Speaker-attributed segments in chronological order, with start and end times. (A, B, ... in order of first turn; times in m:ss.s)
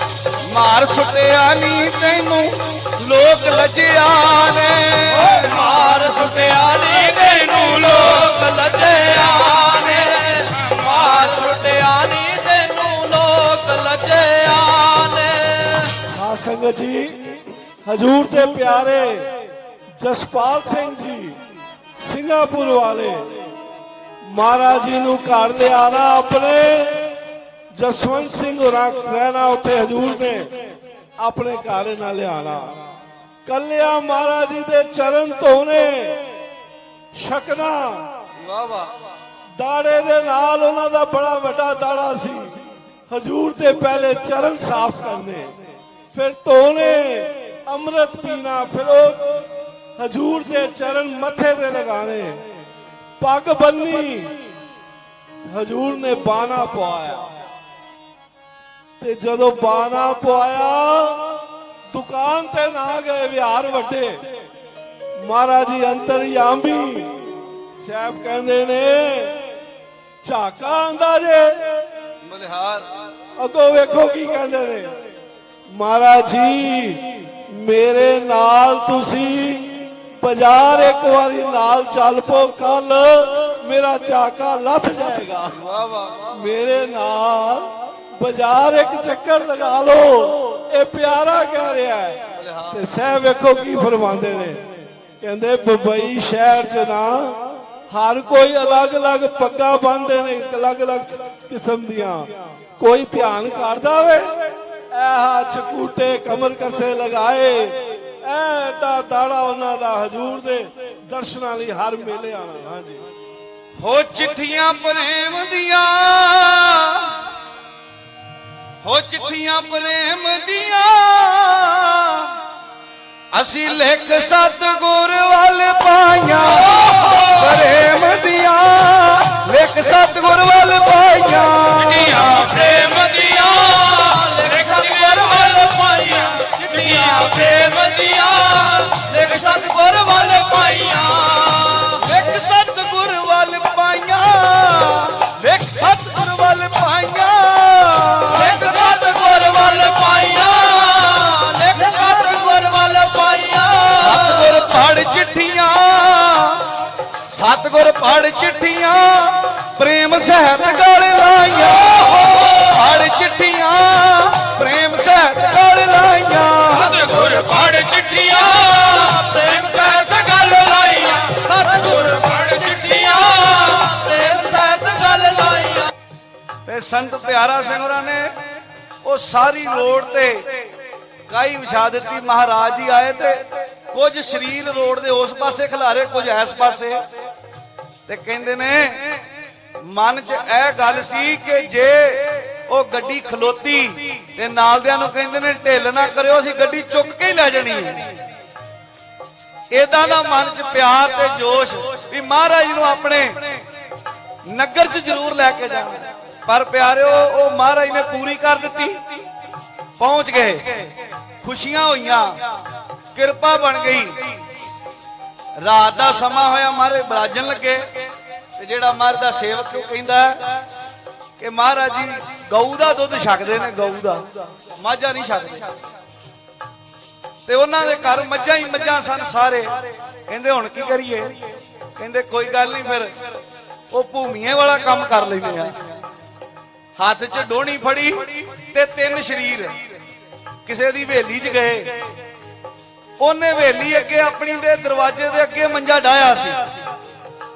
0:00.4-0:05.4 A
0:05.2-0:15.9 B
0:16.0-0:21.4 C
0:22.0-0:23.4 C
0:24.3-0:27.2 C
0:27.8-0:30.7 C
0:31.2-0:32.8 C
0:33.4-0:36.3 C
0:37.1-0:38.1 C
0:38.4-0:39.0 A
0:39.6-0:45.6 C
0:46.1-0:52.4 C
0:53.2-0:54.5 C
0:55.5-0:57.3 C
0:59.0-1:04.4 C
1:05.2-1:09.5 C
1:10.2-1:11.9 C
1:12.2-1:12.9 A
1:13.4-1:15.0 C
1:15.7-1:25.6 C
1:25.6-1:26.4 A
1:26.3-1:53.0 C
1:32.4-1:32.8 A
1:53.8-1:57.2 A
1:58.8-2:02.3 A
2:03.3-2:12.3 A
2:12.0-2:22.0 B
2:22.0-2:28.5 A
2:28.3-2:34.6 B
2:34.0-2:36.7 A
2:37.3-2:47.1 A
2:46.8-2:55.9 B
2:56.6-2:58.4 A
2:59.0-3:00.6 A
3:01.3-3:07.0 A
3:08.1-3:09.2 A
3:09.8-3:18.2 A
3:19.7-3:23.6 A
3:24.5-3:29.2 A
3:30.0-3:30.9 A
3:31.4-3:32.4 A
3:33.1-3:34.4 A
3:35.6-3:37.9 A
3:38.6-3:40.6 A
3:41.4-3:45.8 A
3:47.5-3:51.4 A
3:52.0-3:53.1 A
3:53.9-3:55.8 A
3:57.0-3:59.8 A
4:00.6-4:01.9 A
4:03.2-4:06.7 A